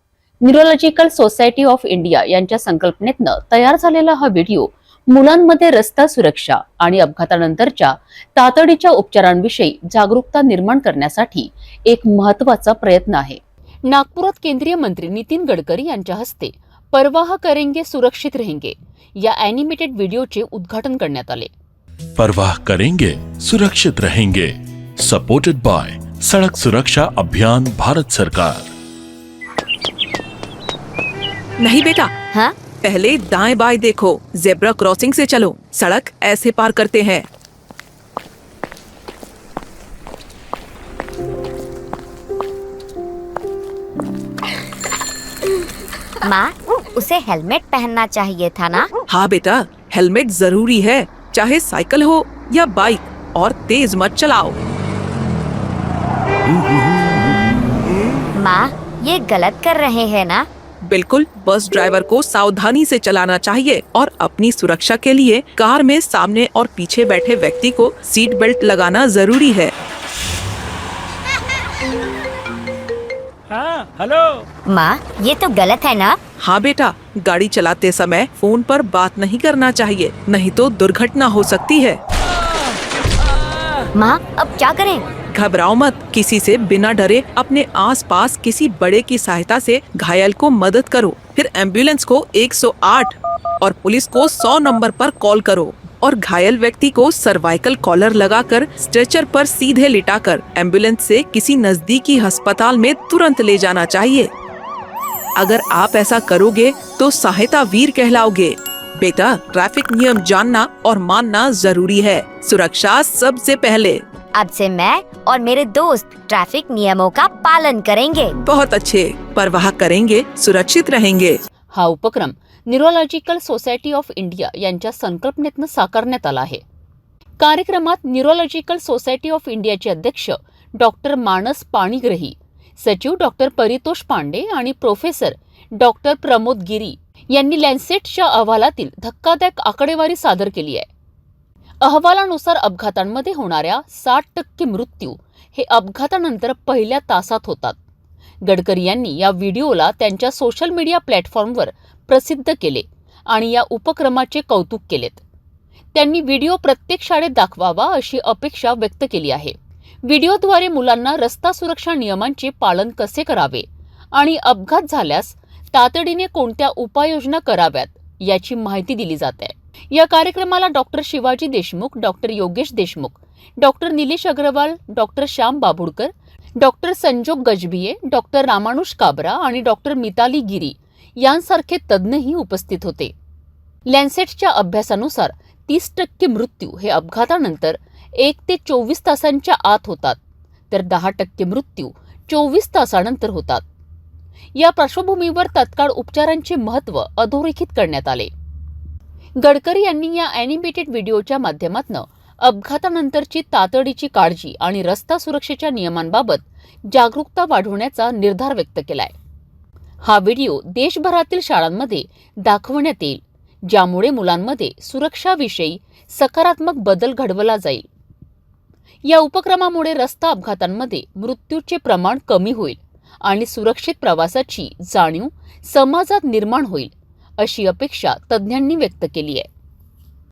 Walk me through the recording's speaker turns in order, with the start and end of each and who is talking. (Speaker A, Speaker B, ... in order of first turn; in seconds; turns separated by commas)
Speaker A: 0.4-21.5, Speaker B: 22.2-28.7, Speaker C: 31.6-32.1, Speaker C: 32.8-37.2, Speaker D: 46.2-48.9, Speaker C: 49.1-54.6, Speaker D: 58.4-60.5, Speaker C: 60.9-69.7, Speaker D: 74.7-76.2, Speaker C: 76.4-82.0, Speaker D: 83.9-85.1, Speaker C: 85.3-104.3, Speaker C: 105.4-114.0, Speaker D: 114.3-118.3, Speaker C: 118.4-121.4, Speaker A: 121.7-126.6, Speaker A: 127.4-140.9, Speaker A: 141.8-147.8, Speaker A: 148.4-155.2, Speaker A: 155.9-183.1, Speaker A: 183.9-190.2, Speaker A: 190.7-193.6, Speaker A: 194.6-198.3, Speaker A: 199.4-209.1, Speaker A: 210.0-217.9, Speaker A: 219.1-229.5